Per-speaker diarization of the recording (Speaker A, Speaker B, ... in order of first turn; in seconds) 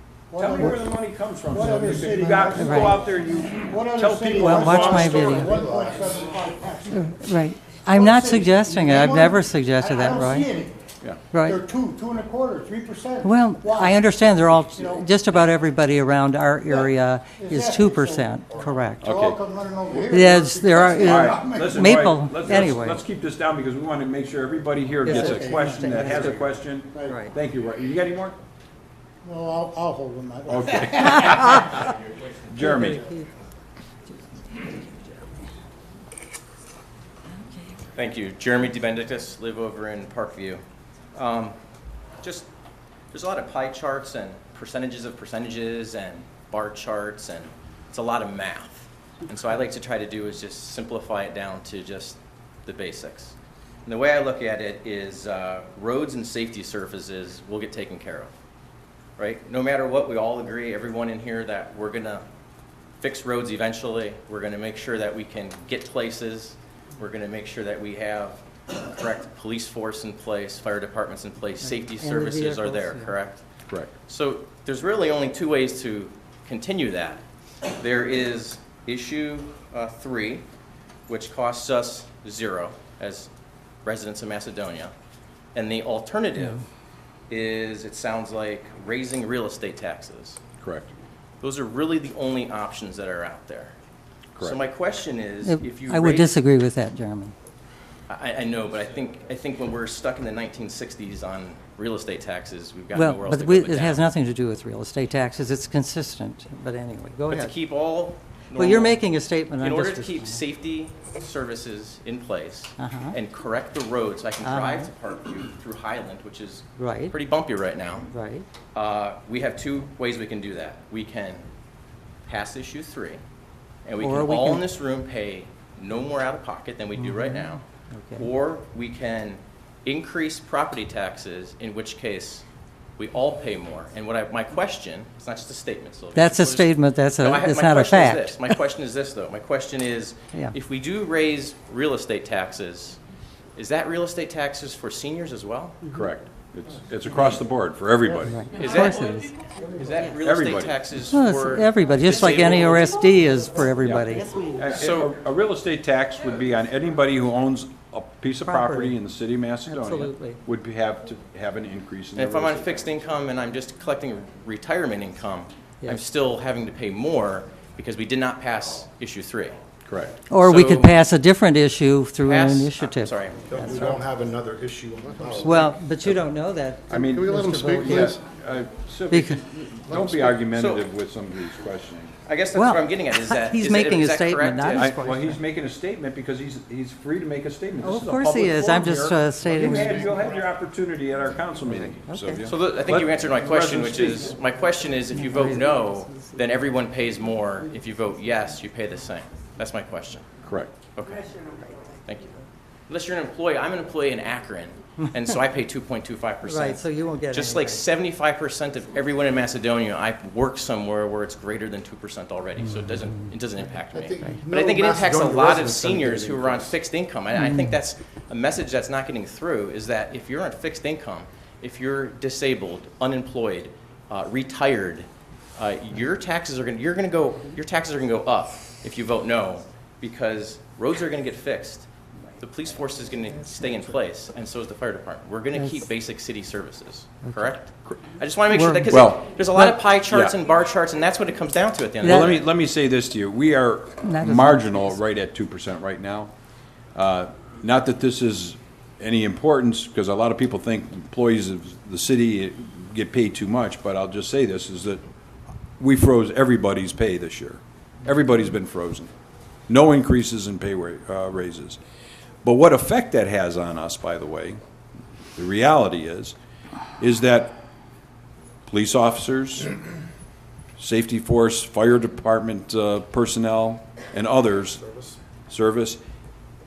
Speaker A: 0.3-0.8, 1.5-10.9, 11.4-15.1, 16.6-21.9, 25.1-26.2, 26.9-27.2, 29.2-31.5
Speaker B: 0.3-5.3, 19.0-19.4, 21.0-28.4, 30.5-31.9, 32.5-33.0, 90.6-90.9, 145.9-148.7, 150.2-150.8, 153.8-163.0, 169.8-170.2, 176.9-182.1, 184.8-194.3, 200.4-200.7, 238.9-239.3, 240.0-240.3, 242.0-246.3, 246.9-255.0, 255.8-259.1, 259.7-261.8, 262.4-264.6, 265.4-266.4, 267.0-267.6, 268.7-269.8, 270.8-274.8, 275.5-276.0
Speaker C: 2.6-2.9, 4.4-5.5, 6.9-10.5, 11.3-11.6, 13.2-19.0, 20.1-23.0, 25.0-26.5, 27.1-27.3, 32.6-33.3, 34.5-35.2, 71.6-73.1, 95.4-97.3, 102.9-107.5, 108.5-110.4, 112.8-113.2, 114.4-114.9, 116.8-117.2, 118.1-118.5, 124.0-124.6, 127.0-128.3, 136.1-138.5, 148.2-149.3, 151.1-154.5, 158.4-159.0, 159.6-160.4, 170.3-174.0, 175.3-178.1, 179.1-179.4, 182.5-185.4, 187.8-190.2, 191.8-192.4, 195.1-196.5, 206.4-207.8, 212.6-213.2, 217.3-217.8, 235.5-235.9, 237.2-237.5, 238.5-239.0, 242.0-242.4, 244.0-245.0
Speaker D: 4.7-6.3, 173.4-175.7, 176.9-178.2, 179.9-180.4, 189.6-190.5, 213.9-216.8
Speaker E: 37.9-40.6, 41.1-41.5, 42.2-42.5, 43.1-53.3, 53.9-58.3, 59.2-62.2, 63.0-73.4, 74.0-80.4, 81.1-83.3, 83.8-84.9, 85.5-86.6, 87.3-90.4, 91.4-93.7, 94.4-96.3, 98.1-104.0, 107.3-109.0, 109.6-118.1, 118.7-121.5, 122.3-123.2, 123.8-127.6, 128.2-132.4, 133.0-143.0, 143.6-145.8, 148.5-153.0, 154.7-155.1, 162.1-169.6, 170.4-171.0, 172.2-173.5, 180.5-180.8, 182.2-184.9, 192.4-200.3, 200.9-201.4, 202.0-202.3, 202.9-231.9, 232.4-242.5